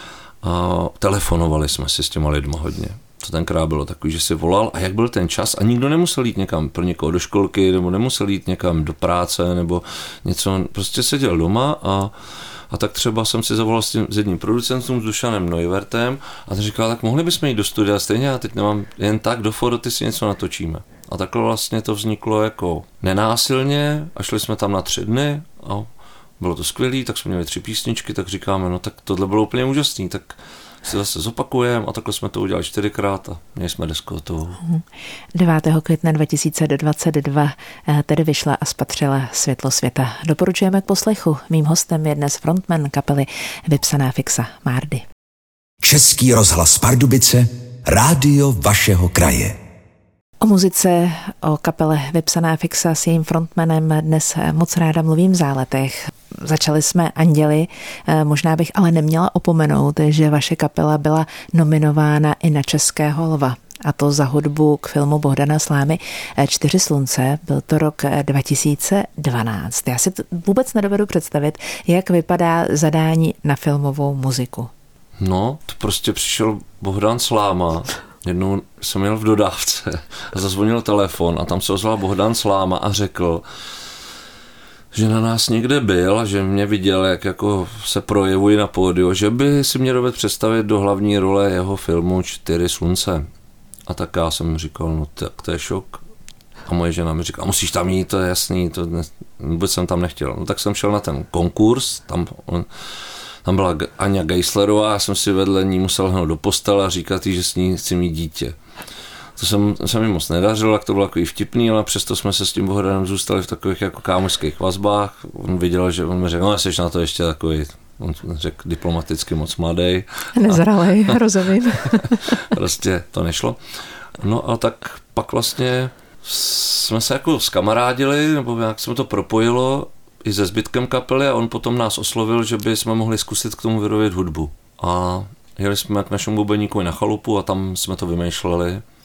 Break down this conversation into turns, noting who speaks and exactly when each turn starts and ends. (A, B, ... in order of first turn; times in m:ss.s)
0:00.4-0:12.1 A
0:12.7-0:25.9 A
0:26.4-0:34.6 A
0:35.3-0:45.0 B
0:45.8-0:49.6 C
0:50.4-1:14.7 B
1:15.2-1:23.4 A
1:24.9-1:33.3 A
1:33.9-1:36.0 A
1:36.7-1:42.7 A
1:43.4-1:48.6 A
1:49.4-2:01.2 A
2:00.4-2:02.4 B
2:01.8-2:03.6 A
2:04.2-2:18.8 A